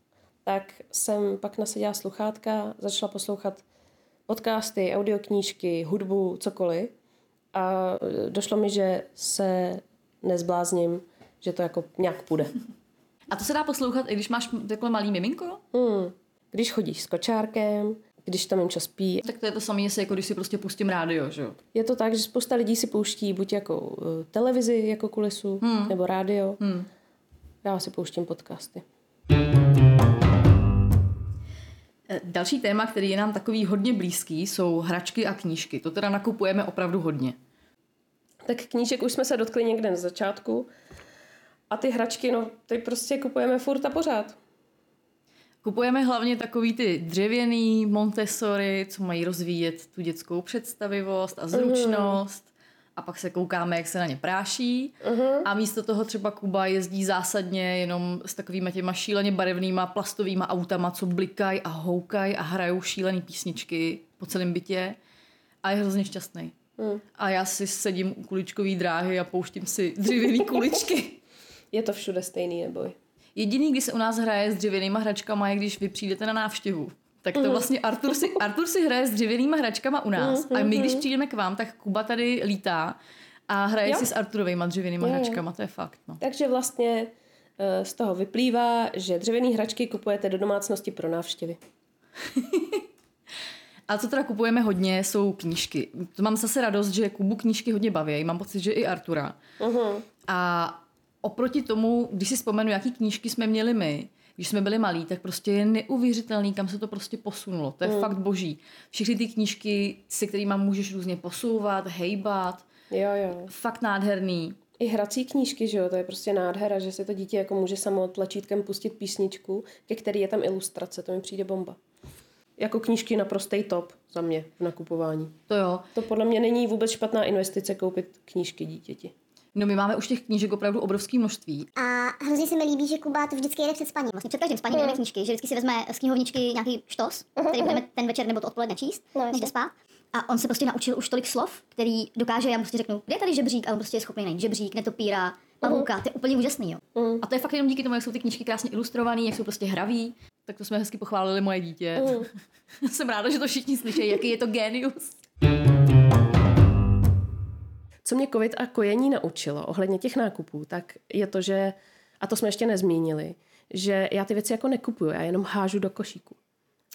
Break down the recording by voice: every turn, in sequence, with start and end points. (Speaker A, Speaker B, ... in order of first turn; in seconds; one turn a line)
Speaker A: 0.5-3.6
Speaker A: 4.3-6.9
Speaker A: 7.5-12.5
Speaker B: 13.3-15.6
Speaker A: 15.7-19.2
Speaker B: 19.2-21.6
Speaker A: 21.7-26.6
Speaker B: 25.6-25.9
Speaker B: 26.6-26.9
Speaker A: 27.6-28.9
Speaker B: 32.1-37.4
Speaker A: 38.4-40.7
Speaker A: 41.7-44.4
Speaker B: 45.6-65.0
Speaker A: 51.5-52.2
Speaker A: 55.0-55.5
Speaker B: 65.6-66.5
Speaker A: 66.8-67.0
Speaker B: 67.2-71.2
Speaker A: 71.7-73.0
Speaker B: 73.4-83.0
Speaker A: 77.4-77.6
Speaker A: 80.2-81.0
Speaker B: 83.5-86.2
Speaker A: 85.0-85.4
Speaker A: 86.2-91.6
Speaker B: 92.3-92.8
Speaker B: 93.9-99.4
Speaker A: 99.6-100.1
Speaker B: 100.3-112.7
Speaker A: 107.8-108.1
Speaker A: 112.9-113.5
Speaker B: 113.5-114.6
Speaker A: 114.8-121.8
Speaker A: 122.6-125.4
Speaker B: 125.5-125.9
Speaker A: 126.0-129.1
Speaker B: 129.6-131.7
Speaker C: 131.8-146.8
Speaker A: 137.4-137.8
Speaker A: 147.0-147.2
Speaker B: 147.2-152.3
Speaker A: 152.0-152.3
Speaker B: 152.8-155.2
Speaker A: 158.1-166.4